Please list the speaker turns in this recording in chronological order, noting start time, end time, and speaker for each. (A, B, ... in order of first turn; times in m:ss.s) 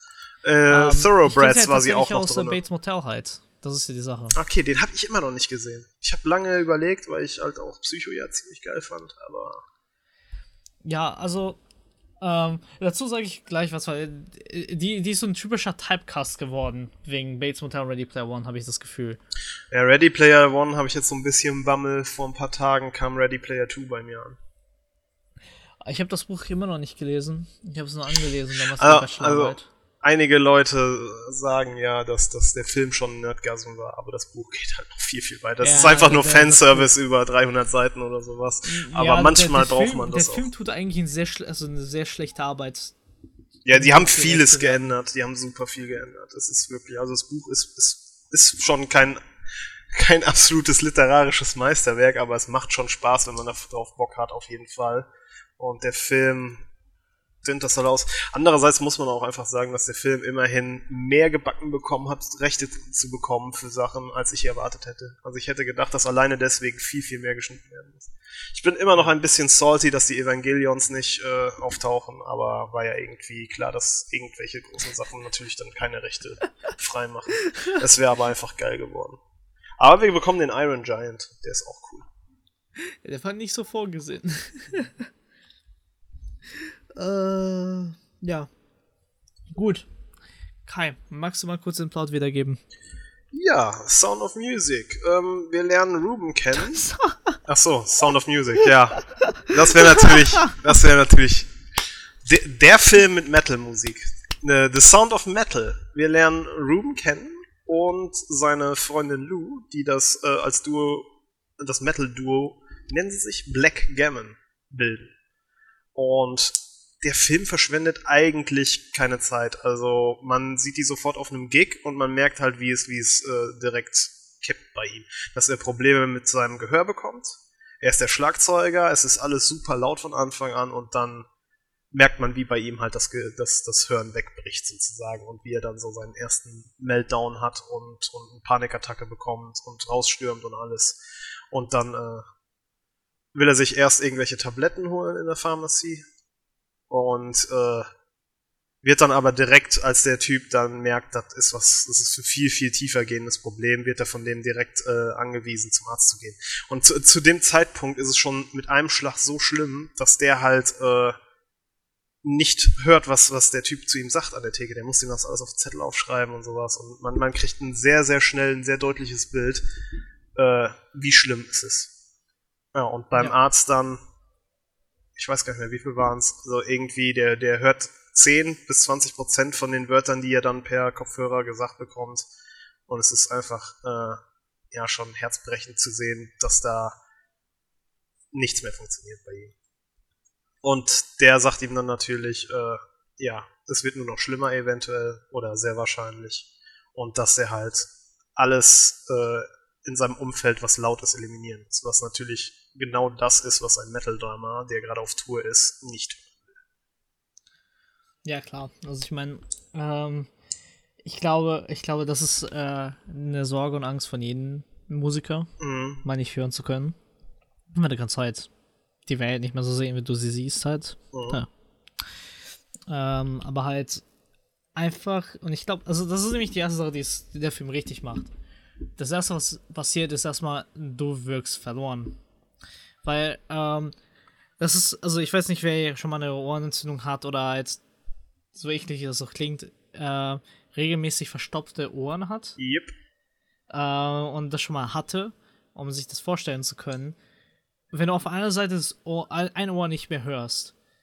0:00.4-0:02.6 A
0:00.7-0:04.4 B
0:04.3-0:09.6 A
0:10.8-0:11.6 B
0:12.2-0:19.2 B
0:19.7-0:24.4 A
0:25.8-0:29.7 B
0:28.8-0:40.5 A
0:35.6-0:36.9 B
0:38.7-0:43.0 B
0:43.6-0:49.2 A
0:43.7-0:44.8 B
0:49.9-0:56.6 A
0:57.4-1:19.2 A
1:17.5-1:17.8 B
1:19.8-1:22.1 A
1:22.8-1:25.0 B
1:26.6-1:28.5 B
1:29.5-1:29.9 B
1:30.7-1:32.6 B
1:33.3-1:36.9 A
1:36.7-1:37.4 B
1:37.4-1:41.5 A
1:39.2-1:40.6 B
1:42.2-1:55.1 A
1:56.0-2:11.3 A
2:11.9-2:21.0 A
2:21.5-2:22.3 A
2:23.3-2:26.1 A
2:26.9-2:27.9 A
2:28.8-2:41.2 A
2:42.2-2:49.6 A
2:50.4-2:51.9 A
2:52.7-2:54.0 A
2:55.2-3:02.3 A
3:02.9-3:07.0 A
3:08.3-3:09.6 A
3:10.6-3:26.4 A
3:28.2-3:30.3 B
3:31.0-3:35.5 B
3:35.6-3:36.0 A
3:36.0-3:37.0 B
3:37.7-3:38.5 B
3:39.1-3:41.5 B
3:41.1-3:41.4 A
3:42.9-3:44.0 B
3:44.8-3:48.3 B
3:49.0-3:52.2 B
3:53.0-3:54.0 B
3:54.6-3:57.8 B
3:58.6-4:02.6 B
4:02.6-4:02.9 A
4:03.7-4:07.2 B
4:07.9-4:10.7 B